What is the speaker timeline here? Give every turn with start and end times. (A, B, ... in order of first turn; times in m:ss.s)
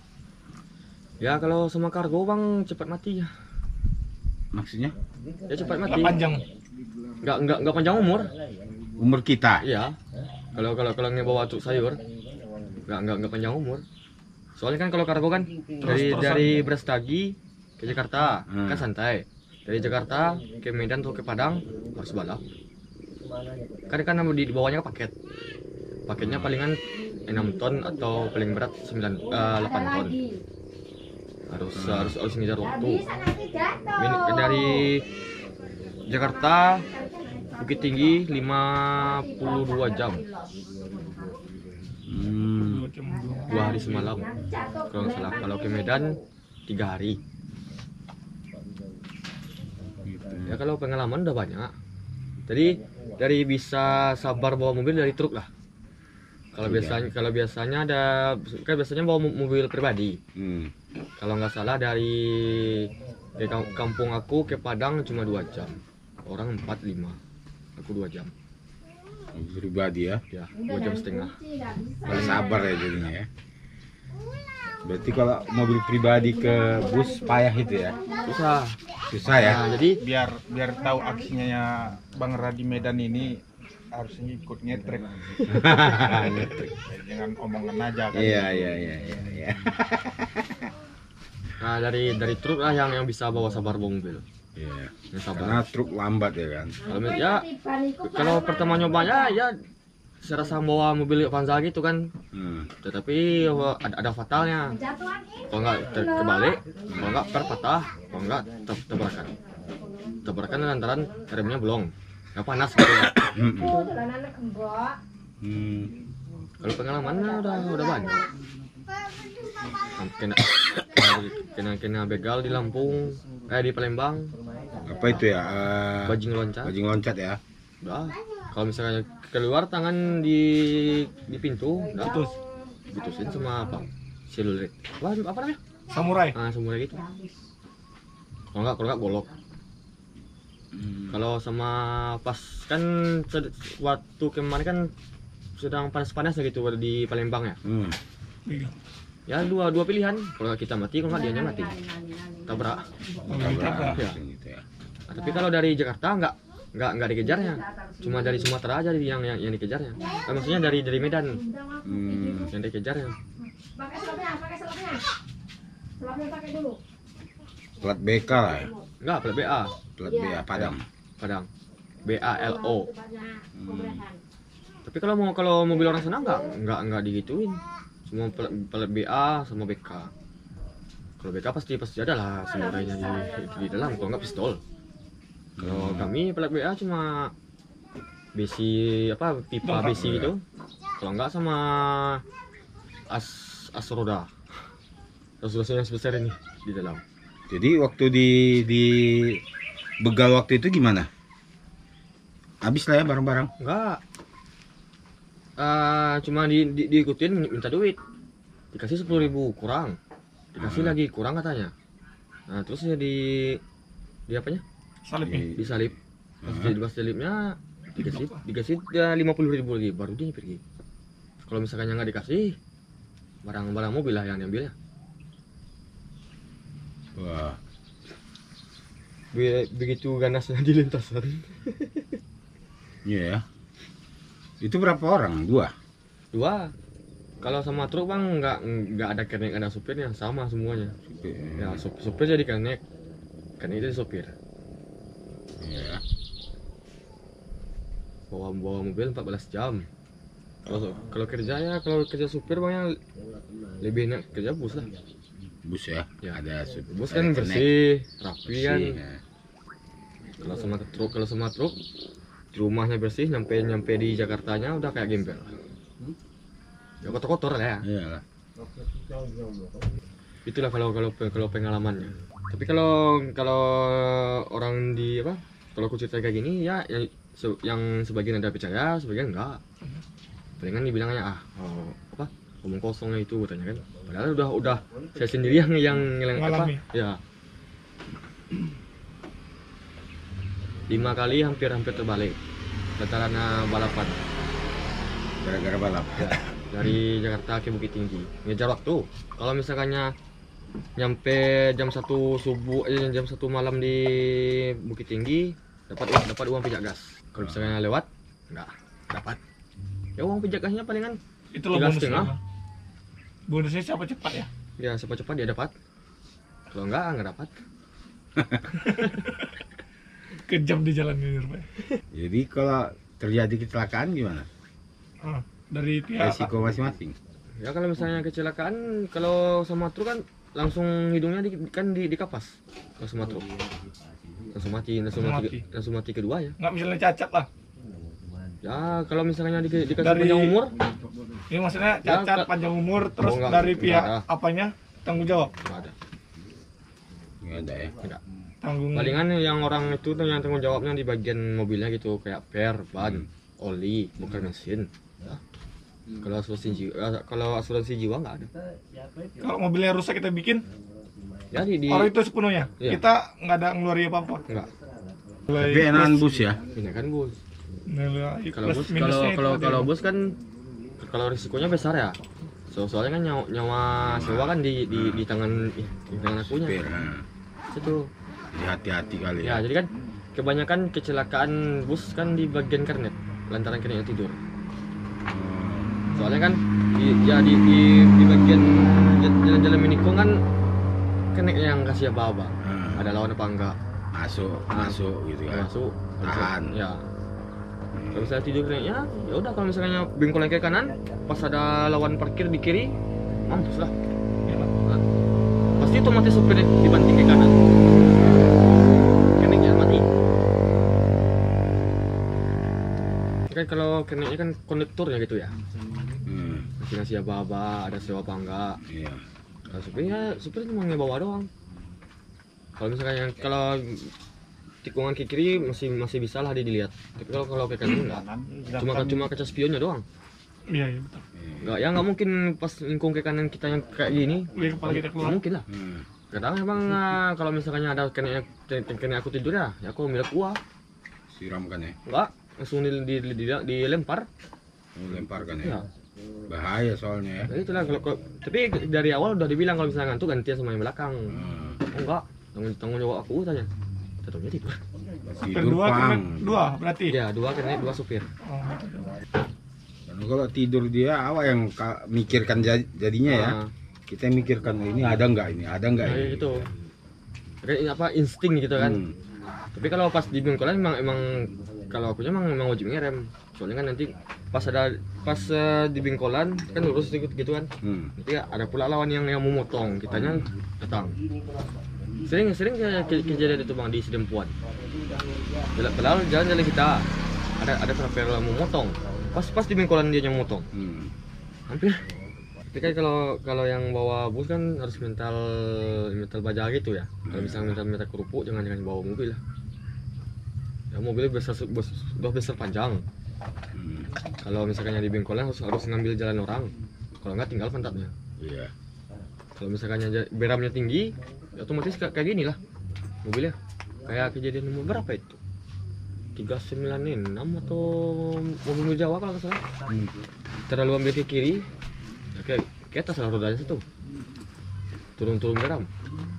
0:01.2-0:03.3 A
0:04.5-0:05.0 B
0:05.5-0:06.2 A
0:05.9-0:06.4 C
0:07.2-0:08.3 A
0:09.0-0:09.6 B
0:09.6-0:10.0 A
0:10.5-0:12.0 A
0:12.9-0:13.8 A
0:14.6-0:22.4 A
0:15.8-0:16.6 C
0:18.5-0:18.8 B
0:23.9-0:25.1 A
0:26.1-0:30.2 A
0:26.2-0:26.5 B
0:29.2-0:30.4 D
0:31.5-0:33.1 A
0:31.8-0:32.2 B
0:32.6-0:34.9 D
0:34.0-0:35.0 A
0:36.1-0:36.8 A
0:36.3-0:38.3 D
0:37.6-0:40.2 A
0:38.9-0:41.4 D
0:42.1-0:42.9 B
0:42.6-0:44.1 C
0:43.4-0:46.2 D
0:43.5-0:44.3 A
0:44.9-0:47.2 A
0:50.0-0:50.6 B
0:50.5-0:51.7 A
0:52.5-0:55.5 A
0:56.6-1:00.2 A
0:56.6-0:57.1 B
1:00.4-1:00.7 B
1:01.2-1:07.2 A
1:07.8-1:08.3 A
1:09.3-1:10.2 B
1:10.3-1:11.4 A
1:10.6-1:12.7 D
1:12.0-1:13.3 B
1:12.1-1:12.7 A
1:14.8-1:18.0 B
1:16.3-1:18.6 D
1:18.2-1:18.8 A
1:19.1-1:19.7 B
1:19.3-1:20.0 A
1:20.0-1:23.4 E
1:24.0-1:28.8 E
1:25.5-1:26.7 B
1:26.1-1:26.5 A
1:28.1-1:30.7 B
1:31.6-1:34.2 A
1:34.6-1:36.8 B
1:35.1-1:35.6 A
1:36.9-1:37.5 A
1:36.9-1:39.4 D
1:38.0-1:39.6 A
1:40.2-1:42.1 A
1:42.3-1:42.7 B
1:42.8-1:44.8 A
1:44.7-1:46.6 D
1:45.5-1:49.3 A
1:46.9-1:47.2 B
1:49.7-1:50.7 D
1:50.2-1:53.2 A
1:53.3-1:53.9 B
1:53.6-1:55.0 D
1:55.4-1:55.9 B
1:56.6-1:58.2 A
1:57.4-1:58.0 D
2:00.0-2:04.4 A
2:04.8-2:07.4 B
2:05.0-2:05.2 A
2:06.1-2:06.8 A
2:07.8-2:12.2 A
2:12.0-2:13.8 D
2:12.0-2:12.4 C
2:12.9-2:15.6 A
2:15.9-2:16.4 C
2:16.3-2:17.0 A
2:17.0-2:17.4 D
2:18.5-2:19.3 A
2:20.7-2:21.2 B
2:21.1-2:24.9 A
2:25.6-2:27.6 A
2:27.6-2:28.0 B
2:28.5-2:28.7 C
2:29.3-2:31.8 A
2:31.1-2:33.3 D
2:32.5-2:32.9 A
2:33.2-2:34.6 B
2:33.3-2:34.0 C
2:33.4-2:34.2 A
2:35.1-2:41.4 A
2:37.3-2:38.5 D
2:40.0-2:42.5 D
2:41.8-2:42.5 B
2:42.5-2:43.2 A
2:43.4-2:45.1 D
2:46.0-2:46.8 D
2:47.8-2:48.7 B
2:48.4-2:48.8 D
2:49.0-2:49.7 A
2:50.0-2:50.8 B
2:50.0-2:50.5 D
2:50.5-2:51.5 A
2:52.0-2:52.9 A
2:52.1-2:54.2 D
2:53.6-2:54.0 B
2:54.8-3:00.1 A
2:55.9-2:56.2 D
3:01.2-3:04.6 A
3:02.5-3:04.4 D
3:05.6-3:06.1 B
3:05.6-3:07.3 A
3:08.4-3:10.4 A
3:09.6-3:10.0 C
3:09.9-3:10.3 B
3:11.0-3:12.2 A
3:13.1-3:14.3 A
3:15.4-3:17.0 A
3:17.5-3:19.4 B
3:20.0-3:21.1 B
3:22.6-3:23.5 B
3:23.6-3:24.0 A
3:25.6-3:28.0 A
3:28.7-3:30.0 A
3:30.5-3:31.7 A
3:30.6-3:31.0 B
3:32.5-3:33.6 A
3:34.3-3:34.6 A
3:35.0-3:35.5 C
3:35.2-3:35.8 B
3:35.5-3:35.9 A
3:36.4-3:36.8 B
3:36.4-3:40.6 A
3:38.0-3:38.4 C
3:41.4-3:42.6 A
3:43.4-3:44.7 A
3:47.2-3:47.6 B
3:49.3-3:52.1 A
3:53.0-3:53.4 B
3:54.6-3:55.7 B
3:56.3-3:56.7 A
3:57.4-4:01.0 A
4:01.1-4:01.8 B
4:01.6-4:02.8 A
4:03.6-4:04.3 A
4:05.6-4:06.0 B
4:08.3-4:09.9 A
4:10.6-4:13.0 A
4:13.8-4:14.9 A
4:15.6-4:17.8 B
4:16.2-4:19.0 A
4:18.5-4:19.2 B
4:20.4-4:21.8 A
4:22.5-4:25.5 A
4:27.0-4:27.8 A
4:27.8-4:28.2 B
4:30.5-4:39.6 A
4:40.6-4:47.2 A
4:46.4-4:46.8 C
4:50.9-4:52.4 A
4:53.0-4:54.2 A
4:55.4-4:56.5 B
4:56.2-5:00.2 A
5:01.0-5:09.4 A
5:07.4-5:07.7 B
5:10.2-5:11.2 A
5:11.5-5:12.4 C
5:11.7-5:12.4 A
5:13.5-5:14.5 C
5:14.8-5:15.7 A
5:16.7-5:17.6 A
5:18.9-5:19.4 C
5:20.5-5:21.7 C
5:22.1-5:24.5 B
5:25.2-5:26.5 C
5:26.2-5:27.2 B
5:27.6-5:33.5 A
5:34.5-5:36.6 A
5:35.1-5:35.6 C
5:36.6-5:37.5 C
5:38.6-5:40.8 A
5:40.0-5:40.6 C
5:41.5-5:45.5 C
5:42.0-5:42.5 A
5:43.2-5:44.2 A
5:45.6-5:45.9 A
5:47.4-5:47.9 B
5:48.6-5:49.2 C
5:49.0-5:55.4 A
5:53.0-5:53.3 B
5:56.2-5:58.5 A
5:59.4-6:00.6 C
6:01.5-6:02.1 A
6:01.9-6:04.4 C
6:05.5-6:06.3 C
6:05.5-6:06.6 B
6:06.8-6:07.4 A
6:07.9-6:09.9 C
6:08.5-6:10.4 A
6:11.0-6:12.2 A
6:12.7-6:16.8 A
6:14.0-6:15.2 B
6:16.4-6:17.2 B
6:17.7-6:18.1 A
6:18.5-6:19.6 B
6:19.4-6:24.4 A
6:25.3-6:26.0 B
6:26.1-6:26.4 C
6:26.1-6:30.4 A
6:31.3-6:33.8 A
6:32.6-6:33.1 B
6:34.1-6:35.7 B
6:35.5-6:37.0 A
6:36.2-6:36.7 B
6:37.9-6:38.3 B
6:38.1-6:42.9 A
6:43.5-6:43.9 A
6:45.8-6:47.5 A
6:49.2-6:50.1 A
6:53.5-6:55.5 A
6:56.2-6:56.7 B
6:56.8-6:58.8 A
6:58.9-6:59.2 B
6:59.7-7:01.5 A
7:02.8-7:04.1 A
7:04.8-7:08.2 A
7:07.9-7:09.3 E
7:08.8-7:10.0 A
7:10.7-7:11.2 C
7:11.4-7:11.8 B
7:11.6-7:15.7 A
7:14.5-7:15.4 C
7:15.7-7:16.1 B
7:16.3-7:20.6 A
7:21.3-7:22.0 B
7:22.1-7:24.3 A
7:25.0-7:25.8 B
7:26.5-7:27.5 B
7:27.5-7:31.4 A
7:31.3-7:31.8 B
7:31.9-7:33.7 A
7:34.2-7:34.8 A
7:35.4-7:36.6 B
7:35.5-7:37.2 C
7:37.1-7:38.3 A
7:38.4-7:39.1 C
7:40.1-7:43.6 B
7:43.3-7:43.7 A
7:44.1-7:46.5 B
7:46.0-7:46.7 A
7:47.6-7:49.0 A
7:48.8-7:49.2 B
7:49.8-8:01.2 A
7:57.8-7:58.1 B
8:02.3-8:04.5 A
8:05.8-8:07.1 A
8:07.6-8:10.7 A
8:10.7-8:11.1 B
8:11.7-8:12.0 A
8:12.7-8:19.4 A
8:17.2-8:17.8 B
8:20.9-8:23.0 A
8:23.8-8:24.1 B
8:24.4-8:28.1 A
8:28.4-8:28.7 B
8:29.6-8:32.6 A
8:33.2-8:35.4 A
8:36.4-8:39.6 A
8:40.7-8:41.6 A
8:42.4-8:43.8 A
8:45.2-8:45.9 A